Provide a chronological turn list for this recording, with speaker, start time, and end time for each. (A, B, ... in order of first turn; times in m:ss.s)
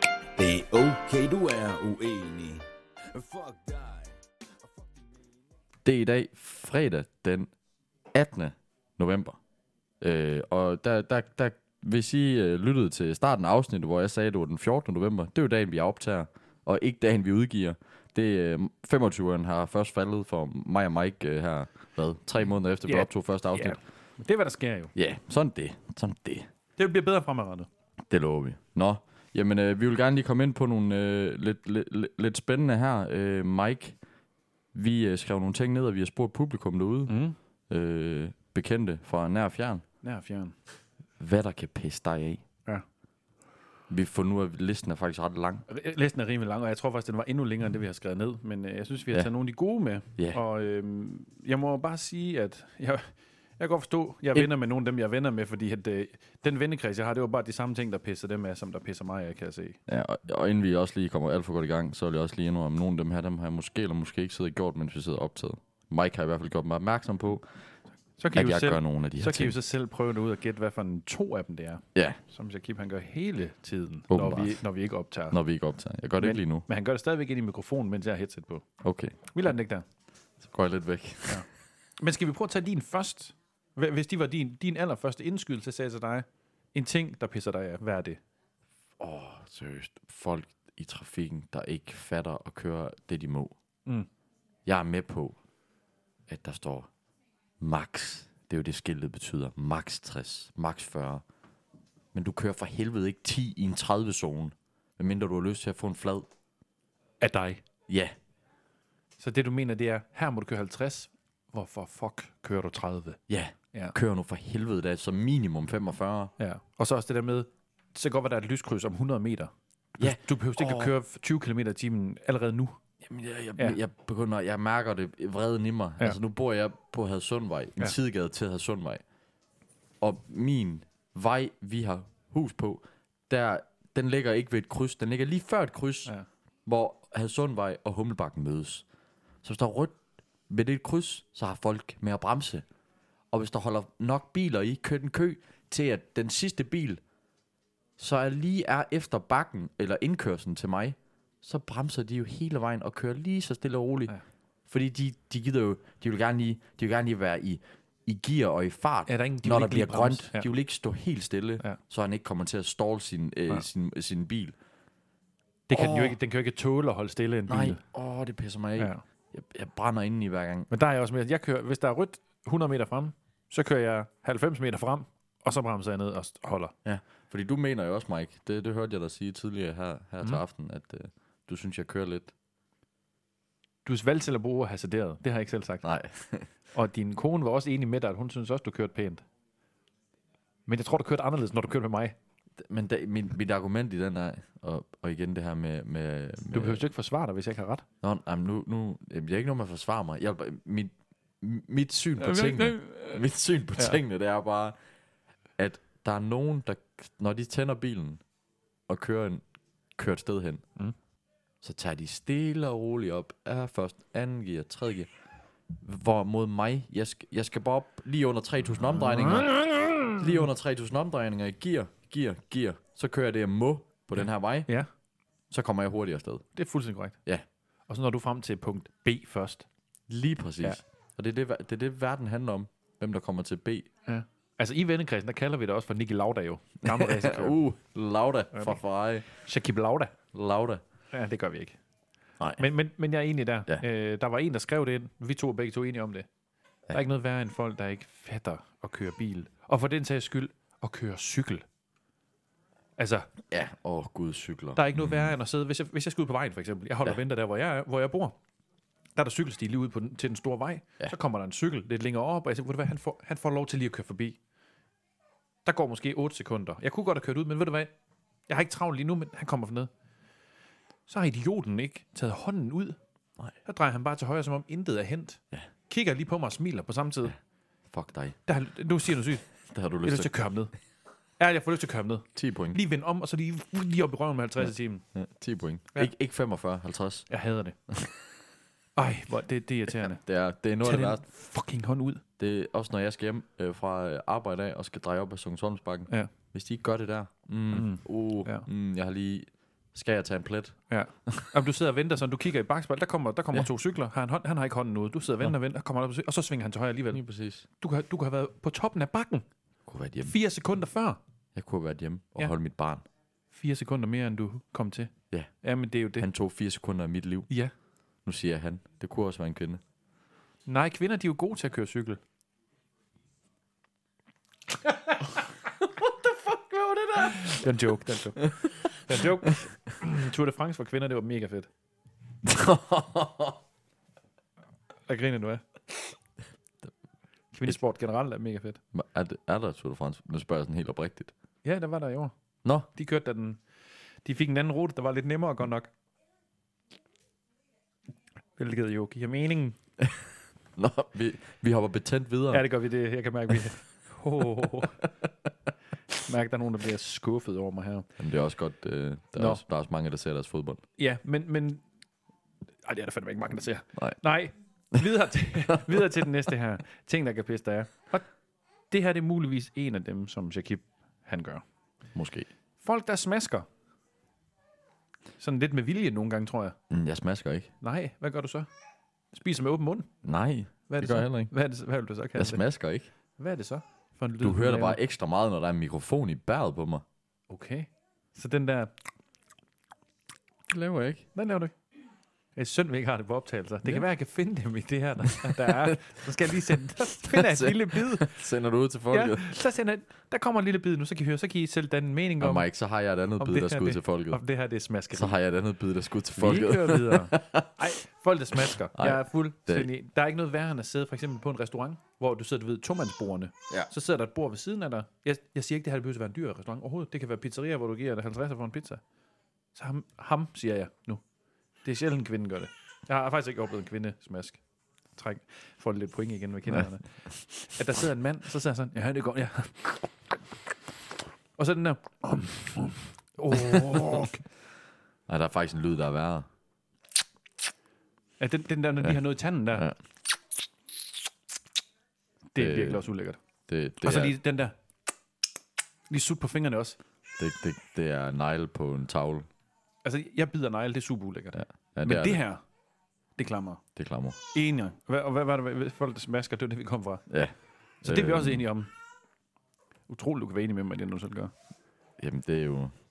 0:00.4-0:05.1 A
0:05.8-0:07.5 B
0:08.1-0:09.4 B
0:10.0-0:23.8 B
0:22.8-0:24.9 C
0:24.9-0:26.5 B
0:26.8-0:27.7 C
0:28.0-0:34.0 B
0:34.7-0:37.2 B
0:37.1-0:37.4 C
0:37.7-0:39.8 B
0:40.0-0:40.5 C
0:41.2-0:42.4 B
0:43.9-0:45.6 B
0:45.7-0:59.8 C
0:59.9-1:07.6 B
1:08.2-1:15.4 C
1:08.3-1:09.6 B
1:14.1-1:14.6 B
1:15.3-1:16.6 B
1:16.2-1:18.6 C
1:18.8-1:19.2 B
1:19.3-1:19.8 C
1:20.4-1:21.4 B
1:22.0-1:28.2 C
1:29.0-1:33.5 B
1:34.6-1:35.4 B
1:36.3-1:36.9 B
1:37.6-1:41.2 B
1:42.1-1:46.3 B
1:47.2-1:47.6 C
1:47.9-1:48.1 B
1:49.2-1:53.2 C
1:53.3-1:56.3 B
1:56.4-2:02.8 C
2:00.0-2:00.9 B
2:03.0-2:09.0 B
2:10.0-2:16.1 B
2:16.6-2:18.8 B
2:19.4-2:20.0 B
2:20.5-2:22.6 B
2:23.3-2:27.0 B
2:28.0-2:34.1 B
2:34.7-2:44.6 B
2:39.1-2:40.5 C
2:45.7-2:47.8 C
2:45.7-2:46.2 B
2:47.5-2:50.7 B
2:48.8-2:49.0 C
2:50.7-2:56.7 C
2:56.8-3:02.3 B
3:03.8-3:05.8 C
3:05.8-3:06.5 B
3:06.7-3:09.2 C
3:10.7-3:12.1 C
3:12.6-3:16.8 B
3:16.5-3:17.8 C
3:18.0-3:24.8 B
3:22.2-3:23.2 C
3:25.6-3:28.2 B
3:28.9-3:29.4 B
3:30.0-3:30.6 B
3:31.6-3:35.1 B
3:35.8-3:44.7 B
3:39.0-3:40.4 C
3:45.5-3:46.4 B
3:46.5-3:47.2 C
3:47.9-3:49.7 C
3:50.1-3:53.9 B
3:54.0-3:57.6 C
3:56.8-3:59.2 B
3:59.3-4:00.1 C
4:00.3-4:00.8 B
4:01.1-4:01.8 C
4:02.4-4:02.6 B
4:02.6-4:06.3 C
4:06.9-4:11.6 C
4:13.0-4:13.3 C
4:13.5-4:15.3 B
4:14.8-4:18.4 C
4:19.2-4:24.4 C
4:25.6-4:27.9 C
4:28.5-4:29.9 C
4:31.1-4:33.0 C
4:33.6-4:37.3 C
4:37.9-4:38.4 B
4:38.4-4:39.5 C
4:39.7-4:40.3 B
4:40.0-4:40.7 C
4:41.4-4:45.0 C
4:42.4-4:42.8 B
4:45.1-4:47.3 B
4:47.3-4:47.8 C
4:49.0-4:50.2 C
4:50.0-4:51.2 B
4:50.8-4:52.2 C
4:52.4-5:00.8 B
4:57.7-4:58.7 C
5:00.9-5:07.2 C
5:07.1-5:07.6 B
5:07.8-5:09.4 C
5:09.9-5:10.3 B
5:10.2-5:11.2 C
5:11.5-5:13.0 B
5:13.5-5:15.1 C
5:15.6-5:16.3 C
5:16.2-5:17.5 B
5:18.2-5:19.8 B
5:20.6-5:22.2 C
5:25.8-5:27.6 B
5:27.2-5:31.7 C
5:32.4-5:33.6 B
5:35.1-5:35.6 C
5:37.5-5:38.8 C
5:38.9-5:41.3 B
5:41.6-5:42.3 C
5:42.9-5:43.6 C
5:44.2-5:45.9 C
5:48.6-5:49.8 C
5:50.8-5:52.7 B
5:52.5-5:55.0 C
5:56.2-5:58.1 C
5:58.2-6:00.8 B
5:59.4-5:59.6 C
6:01.0-6:01.8 C
6:02.8-6:08.2 C
6:08.9-6:11.6 C
6:12.1-6:12.5 B
6:12.8-6:13.6 C
6:15.4-6:16.8 C
6:16.9-6:17.7 B
6:17.8-6:18.7 C
6:19.3-6:20.1 C
6:20.2-6:21.5 B
6:20.9-6:22.6 C
6:22.4-6:23.1 B
6:23.4-6:25.0 C
6:24.4-6:27.0 B
6:27.5-6:28.9 C
6:30.7-6:31.3 B
6:31.3-6:31.7 C
6:32.6-6:38.4 C
6:37.2-6:39.5 B
6:39.1-6:42.7 C
6:42.4-6:44.4 B
6:43.4-6:45.4 C
6:45.1-6:47.8 B
6:46.4-6:59.0 C
6:48.6-6:49.9 B
6:59.7-7:01.2 C
7:01.8-7:04.6 C
7:05.2-7:10.1 C
7:11.6-7:14.4 C
7:15.3-7:16.5 B
7:18.4-7:19.9 C
7:22.5-7:23.4 C
7:22.6-7:23.0 B
7:23.7-7:24.4 B
7:24.0-7:24.8 C
7:26.1-7:27.0 C
7:27.4-7:29.5 B
7:30.0-7:32.6 C
7:31.5-7:32.4 B
7:33.4-7:33.8 C
7:34.0-7:34.4 B
7:34.5-7:37.3 C
7:37.3-7:38.6 B
7:38.0-7:38.9 C
7:40.1-7:41.5 C
7:42.2-7:42.9 B